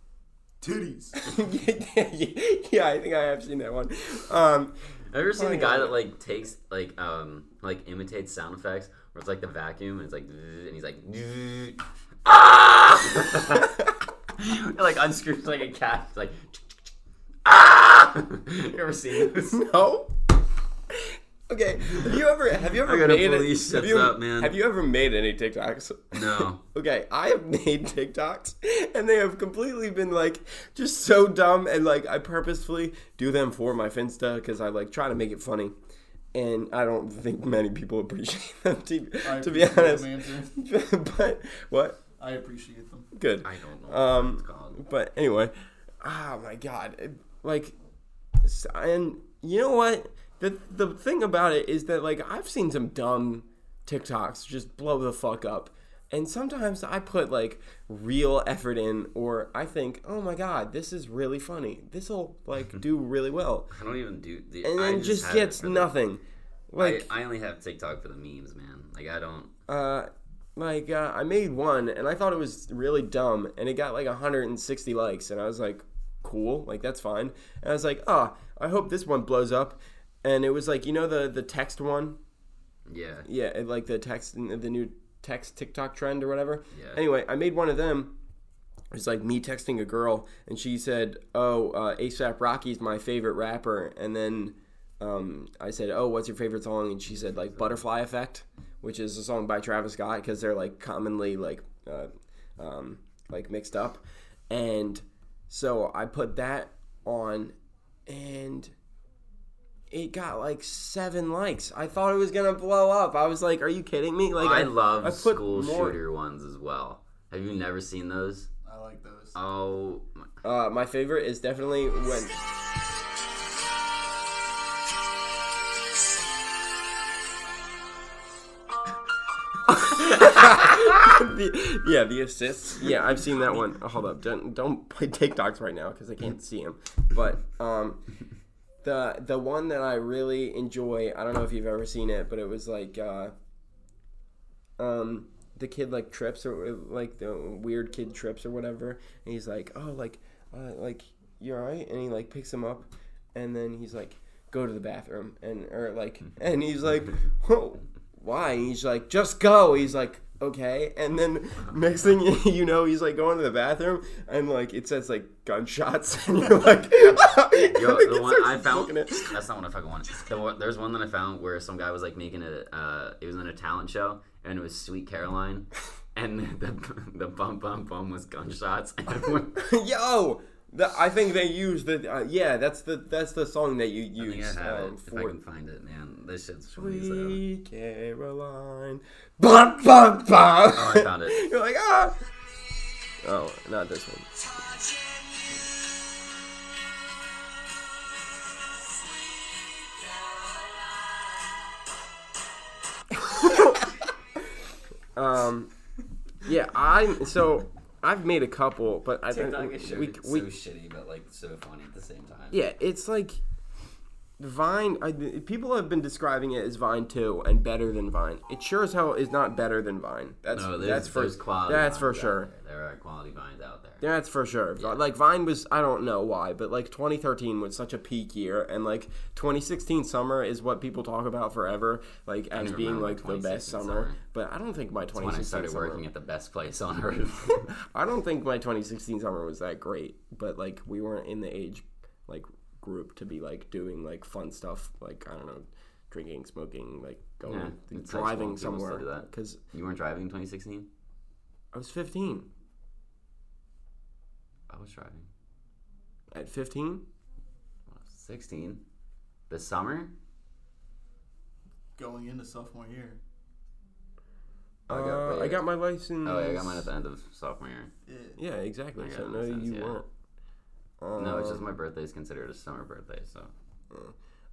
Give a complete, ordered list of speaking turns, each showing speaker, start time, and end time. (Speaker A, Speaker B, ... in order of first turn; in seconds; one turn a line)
Speaker A: 0.6-1.2
Speaker B: 1.2-4.7
Speaker C: 5.1-16.6
Speaker B: 5.3-6.0
Speaker C: 17.4-19.6
Speaker B: 19.4-20.1
Speaker B: 20.9-35.7
Speaker C: 22.8-24.6
Speaker C: 26.1-26.6
Speaker B: 36.3-42.0
Speaker A: 39.2-40.5
Speaker A: 42.2-43.1
Speaker B: 43.1-47.7
Speaker C: 43.4-44.8
Speaker B: 48.4-63.7
Speaker C: 63.7-65.9
Speaker B: 64.6-67.1
Speaker C: 66.8-69.5
Speaker B: 69.7-82.2
Speaker C: 82.9-83.3
Speaker B: 83.2-88.1
Speaker C: 86.7-87.0
Speaker B: 88.9-107.5
Speaker C: 97.4-97.7
Speaker B: 108.1-108.7
Speaker B: 109.9-116.0
Speaker C: 114.4-118.5
Speaker A: 118.6-119.3
Speaker C: 119.3-120.2
Speaker B: 120.4-122.4
Speaker B: 129.7-138.0
Speaker B: 138.8-143.3
Speaker B: 144.8-169.4
Speaker C: 167.6-179.6
Speaker B: 179.5-185.4
Speaker C: 184.2-187.4
Speaker B: 186.7-192.2
Speaker C: 190.7-191.4
Speaker B: 193.2-194.3
Speaker B: 203.2-203.9
Speaker B: 205.1-205.7
Speaker B: 206.4-210.4
Speaker C: 209.3-212.6
Speaker B: 212.5-213.4
Speaker B: 214.4-222.5
Speaker C: 220.5-224.0
Speaker B: 224.0-236.0
Speaker C: 232.5-234.2
Speaker C: 235.1-237.7
Speaker B: 237.7-249.6
Speaker C: 247.4-250.9
Speaker B: 251.7-252.5
Speaker C: 254.7-255.2
Speaker B: 256.3-257.0
Speaker C: 257.9-258.8
Speaker C: 259.5-260.1
Speaker A: 262.0-263.2
Speaker C: 264.9-265.6
Speaker B: 264.9-266.9
Speaker C: 266.2-267.9
Speaker A: 268.1-268.4
Speaker B: 268.4-270.1
Speaker C: 269.0-270.0
Speaker B: 271.0-271.6
Speaker C: 271.2-273.5